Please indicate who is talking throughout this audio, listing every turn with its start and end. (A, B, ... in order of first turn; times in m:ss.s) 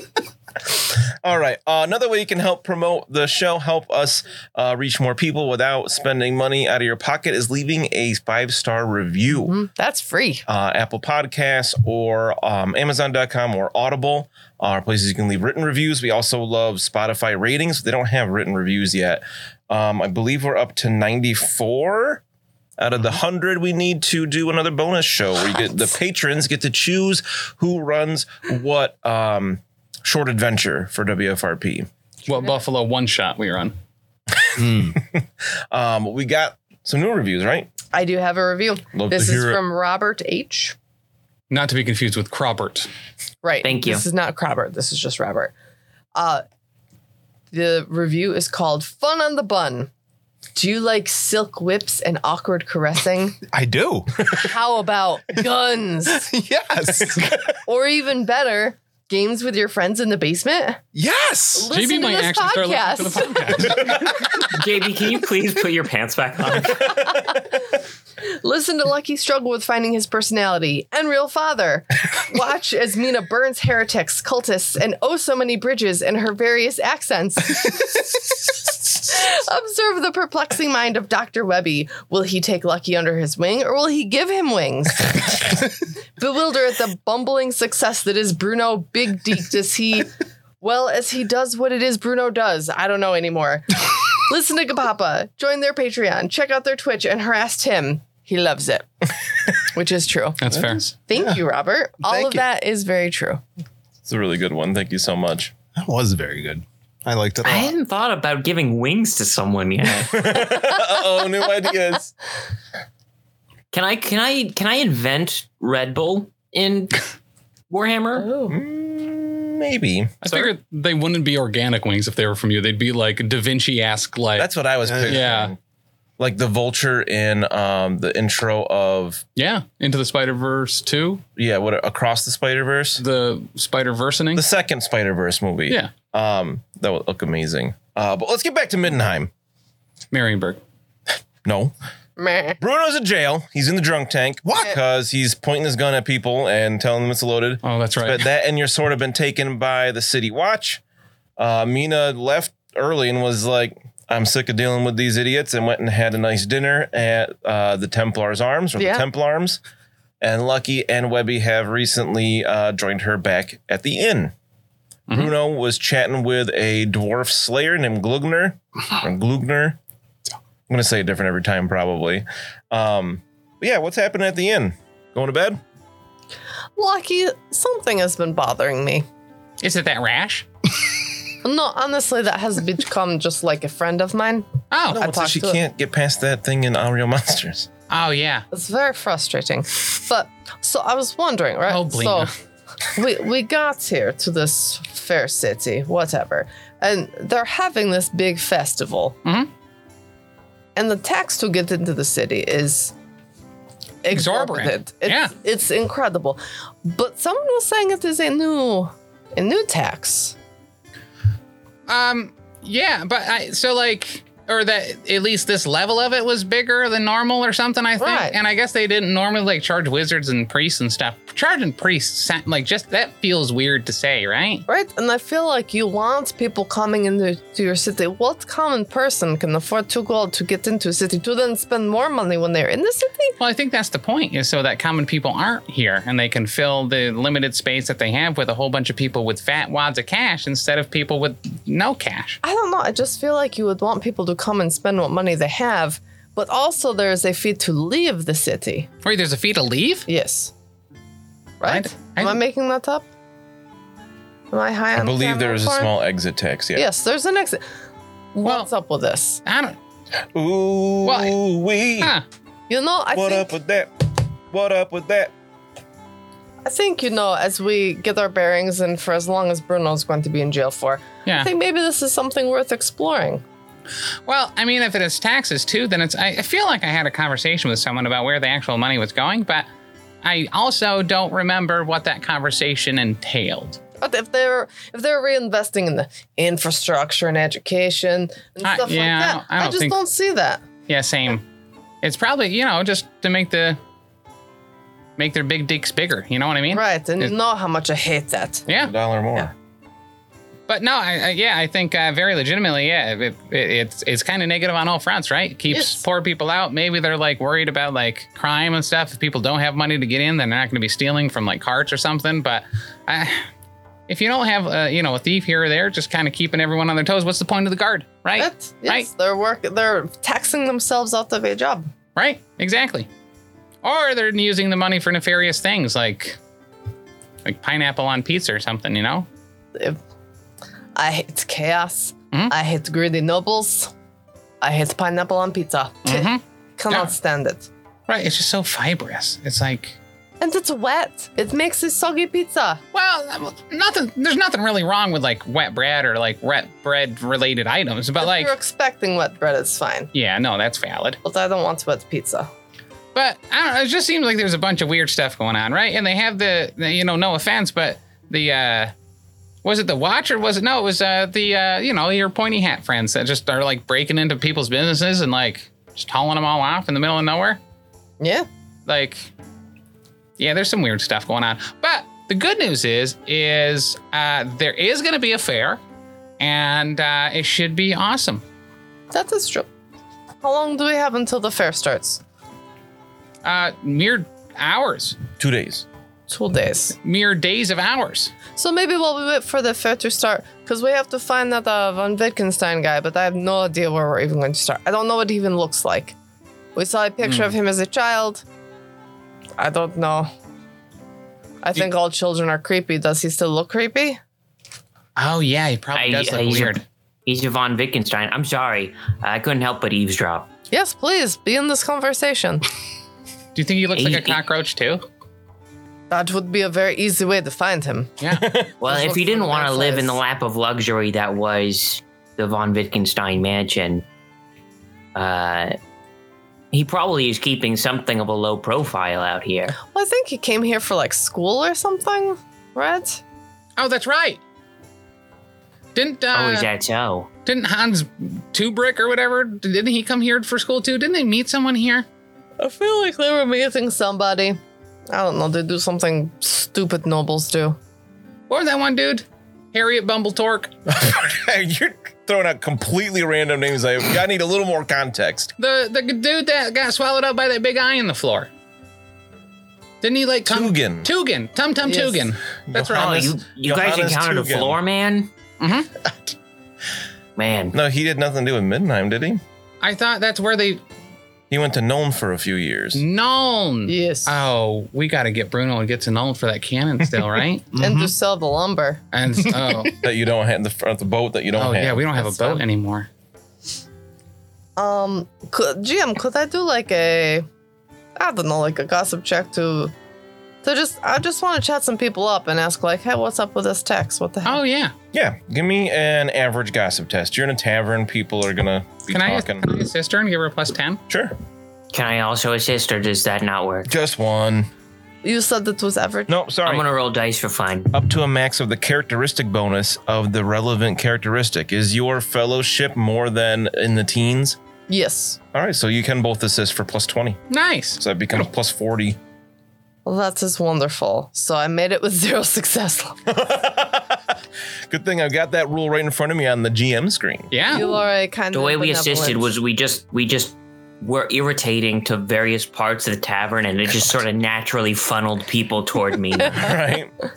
0:01.2-0:09.6 A
0:09.4-0:10.4 B
0:10.5-0:22.2 A
0:22.8-0:31.9 A
0:32.3-0:33.7 C
0:34.5-0:37.7 A
0:34.6-0:35.0 D
0:37.9-0:40.8 B
0:38.9-0:39.6 A
0:41.5-0:42.9 C
0:43.4-0:45.5 B
0:43.6-0:44.0 E
0:46.2-0:46.4 B
0:47.5-0:49.9 B
0:50.6-0:53.4 B
0:53.5-0:54.5 D
0:54.3-0:56.3 B
0:56.1-0:57.4 D
0:57.6-1:00.8 B
1:00.9-1:01.7 D
1:01.6-1:04.0 B
1:01.7-1:03.9 C
1:04.4-1:07.0 E
1:06.8-1:07.5 B
1:08.2-1:25.6 B
1:26.2-1:30.1 B
1:30.6-1:40.4 B
1:40.4-1:40.9 C
1:40.5-1:41.4 D
1:41.1-1:43.4 B
1:42.0-1:42.4 D
1:44.0-1:45.5 A
1:45.8-1:47.8 D
1:47.4-1:50.4 E
1:50.0-1:52.1 A
1:53.7-1:57.0 E
1:57.7-1:58.3 E
1:58.2-1:58.6 B
1:58.5-2:00.5 A
2:00.2-2:04.5 C
2:04.4-2:05.6 A
2:04.8-2:05.3 D
2:05.1-2:05.5 C
2:06.2-2:09.2 A
2:09.4-2:11.2 C
2:11.4-2:13.0 A
2:13.0-2:14.4 C
2:14.3-2:19.3 A
2:20.1-2:20.6 C
2:21.4-2:21.7 A
2:22.2-2:22.6 B
2:22.6-2:30.8 A
2:24.4-2:24.8 D
2:27.6-2:28.2 C
2:31.4-2:39.6 A
2:38.8-2:39.1 B
2:40.2-2:44.3 A
2:45.1-2:49.8 A
2:50.7-2:55.6 A
2:56.8-2:59.1 B
2:59.6-3:00.5 C
3:01.4-3:05.6 B
3:04.7-3:05.0 C
3:04.9-3:07.7 A
3:07.9-3:08.4 C
3:08.5-3:12.3 B
3:11.7-3:12.3 C
3:12.9-3:19.2 B
3:20.8-3:22.9 B
3:24.0-3:30.4 B
3:24.1-3:25.3 C
3:31.9-3:44.7 C
3:38.0-3:38.4 B
3:44.7-3:53.4 B
3:53.4-4:02.4 C
4:02.4-4:08.9 B
4:09.0-4:10.1 C
4:10.1-4:10.5 B
4:11.6-4:13.1 B
4:11.6-4:12.4 C
4:14.5-4:15.9 B
4:15.0-4:16.9 A
4:16.8-4:17.6 B
4:18.3-4:19.4 B
4:18.4-4:18.7 C
4:19.5-4:19.8 C
4:20.3-4:22.1 A
4:21.0-4:21.4 C
4:22.7-4:23.5 B
4:23.1-4:23.9 A
4:24.5-4:25.3 A
4:26.6-4:33.4 B
4:34.3-4:39.7 C
4:40.2-4:43.8 C
4:44.0-4:50.6 B
4:48.6-4:50.0 C
4:50.9-4:51.4 C
4:52.0-4:53.8 C
4:55.2-4:57.3 C
4:56.7-4:58.7 B
4:58.7-4:58.9 C
4:58.8-4:59.5 A
5:00.7-5:13.5 C
5:05.7-5:06.0 B
5:14.1-5:19.1 C
5:18.4-5:21.9 B
5:22.2-5:23.1 C
5:23.8-5:26.4 C
5:27.4-5:29.3 C
5:31.0-5:33.9 B
5:34.6-5:37.7 B
5:36.0-5:37.1 C
5:38.1-5:40.0 C
5:40.4-5:42.8 B
5:42.9-5:48.5 C
5:48.2-5:50.1 B
5:50.1-5:51.2 C
5:51.2-5:52.5 B
5:53.2-5:58.9 C
5:59.6-6:07.6 C
6:08.2-6:08.5 B
6:08.9-6:09.3 C
6:10.4-6:15.8 C
6:16.4-6:18.4 C
6:19.1-6:19.7 B
6:20.4-6:22.2 B
6:23.4-6:25.2 C
6:25.4-6:25.8 A
6:26.3-6:27.0 B
6:27.0-6:28.3 C
6:28.5-6:36.2 B
6:36.8-6:38.4 B
6:37.2-6:37.5 C
6:39.6-6:40.3 B
6:41.6-6:44.2 B
6:45.2-6:46.8 C
6:45.9-6:50.5 E
6:50.7-6:52.6 B
6:53.6-6:55.0 C
6:54.0-6:54.4 E
6:56.1-6:58.1 B
6:58.2-6:58.5 C
6:58.4-6:58.7 A
6:58.8-7:04.0 E
6:58.8-7:00.2 B
7:05.2-7:05.8 E
7:06.7-7:09.8 E
7:09.8-7:13.2 B
7:13.8-7:14.4 C
7:16.0-7:16.7 C
7:16.3-7:17.3 E
7:17.5-7:22.1 C
7:22.6-7:24.6 B
7:25.1-7:27.8 B
7:28.5-7:30.7 C
7:30.9-7:35.5 A
7:35.6-7:38.5 C
7:40.0-7:43.2 C
7:40.5-7:41.1 A
7:41.8-7:42.3 B
7:42.7-7:44.8 A
7:42.9-7:45.3 E
7:45.6-7:45.9 C
7:47.4-7:47.8 E
7:47.7-7:49.4 A
7:49.8-7:50.8 C
7:51.5-7:53.0 A
7:53.0-7:57.7 C
7:53.9-7:54.3 B
7:57.7-7:58.1 D
7:57.8-7:59.0 B
7:59.1-8:00.0 C
7:59.5-7:59.9 D
8:00.0-8:02.1 A
8:01.6-8:03.1 C
8:02.2-8:02.6 B
8:04.8-8:07.5 B
8:08.2-8:09.9 B
8:10.6-8:14.6 B
8:14.4-8:14.9 C
8:15.1-8:19.7 A
8:19.1-8:21.0 C
8:21.1-8:21.3 A
8:21.9-8:23.9 E
8:23.9-8:24.7 A
8:25.2-8:26.3 B
8:26.3-8:26.9 A
8:26.6-8:27.9 E
8:27.9-8:34.6 A
8:34.9-8:35.4 B
8:35.5-8:37.4 A
8:37.5-8:38.0 C
8:38.0-8:39.2 A
8:40.0-8:43.2 B
8:43.3-8:44.3 A
8:44.9-8:47.6 A
8:47.5-8:48.0 C
8:47.7-8:49.5 B
8:48.5-8:56.7 E
8:56.5-8:57.1 A